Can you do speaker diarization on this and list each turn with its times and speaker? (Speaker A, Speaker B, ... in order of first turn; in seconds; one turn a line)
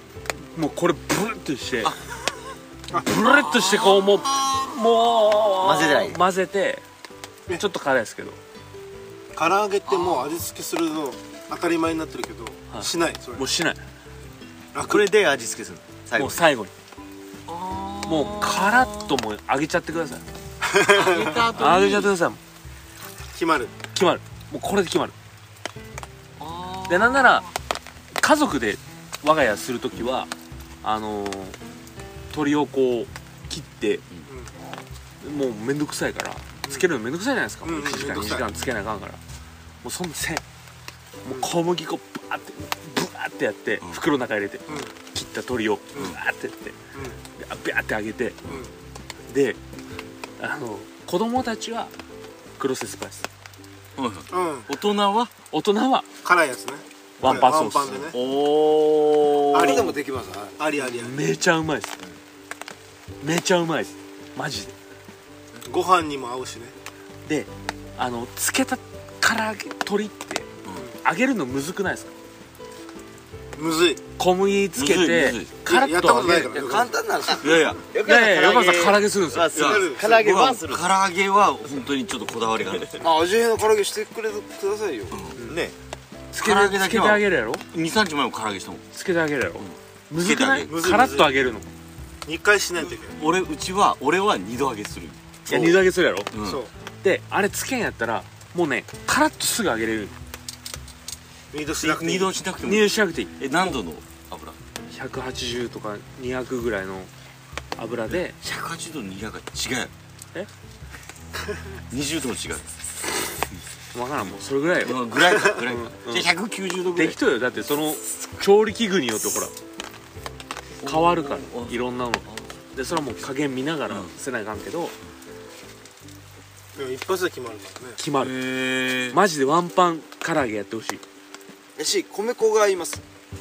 Speaker A: 0.4-1.9
Speaker A: 2.9-6.8
Speaker B: 3.1-4.7
Speaker C: 5.6-6.2
Speaker A: 7.6-8.4
Speaker D: 9.3-13.4
Speaker B: 9.9-10.4
Speaker A: 12.7-13.8
Speaker D: 14.7-15.1
Speaker C: 14.8-16.4
Speaker A: 16.1-16.7
Speaker B: 17.5-19.2
Speaker A: 18.0-20.2
Speaker D: 20.6-21.5
Speaker B: 20.9-22.1
Speaker A: 21.5-22.4
Speaker D: 23.3-23.8
Speaker A: 23.9-25.1
Speaker B: 26.4-27.5
Speaker A: 26.9-27.4
Speaker A: 28.2-30.3
Speaker A: 30.8-31.6
Speaker A: 32.3-34.0
Speaker A: 35.2-39.2
Speaker D: 37.6-38.5
Speaker A: 39.8-40.4
Speaker A: 41.2-46.8
Speaker D: 46.9-47.2
Speaker A: 47.4-48.4
Speaker D: 48.5-48.7
Speaker A: 49.3-49.6
Speaker A: 50.4-51.9
Speaker A: 52.6-53.3
Speaker B: 54.0-55.3
Speaker D: 54.3-54.7
Speaker A: 55.5-56.1
Speaker D: 56.2-58.2
Speaker A: 57.2-58.1
Speaker B: 57.2-57.5
Speaker B: 58.1-59.9
Speaker D: 59.5-60.0
Speaker E: 59.5-60.6
Speaker D: 60.6-61.4
Speaker A: 60.8-62.0
Speaker A: 63.2-64.7
Speaker D: 65.6-66.7
Speaker A: 67.2-70.5
Speaker A: 71.0-72.1
Speaker D: 73.5-74.0
Speaker A: 74.2-76.6
Speaker B: 74.7-75.6
Speaker D: 75.7-77.0
Speaker E: 76.5-77.7
Speaker B: 77.3-77.8
Speaker C: 77.8-80.9
Speaker A: 78.0-79.8
Speaker D: 79.5-80.1
Speaker B: 79.5-83.0
Speaker E: 83.0-85.2
Speaker B: 85.1-85.4
Speaker C: 85.4-85.7
Speaker A: 86.3-87.6
Speaker B: 86.4-88.8
Speaker A: 88.9-91.7
Speaker B: 89.6-90.7
Speaker D: 90.6-91.4
Speaker D: 92.2-93.2
Speaker B: 93.1-95.2
Speaker A: 95.5-96.3
Speaker B: 96.3-96.6
Speaker D: 96.4-96.7
Speaker A: 97.0-100.2
Speaker D: 101.5-102.3
Speaker B: 101.8-104.6
Speaker A: 102.6-103.4
Speaker A: 104.9-107.1
Speaker A: 107.8-108.3
Speaker B: 108.1-109.9
Speaker B: 111.9-112.7
Speaker A: 113.9-116.3
Speaker B: 114.8-117.8
Speaker A: 116.9-119.5
Speaker B: 120.8-122.5
Speaker A: 120.8-124.9
Speaker B: 123.9-124.1
Speaker D: 126.8-128.0
Speaker A: 128.0-128.3
Speaker B: 128.2-129.2
Speaker A: 129.1-131.0
Speaker E: 131.8-133.0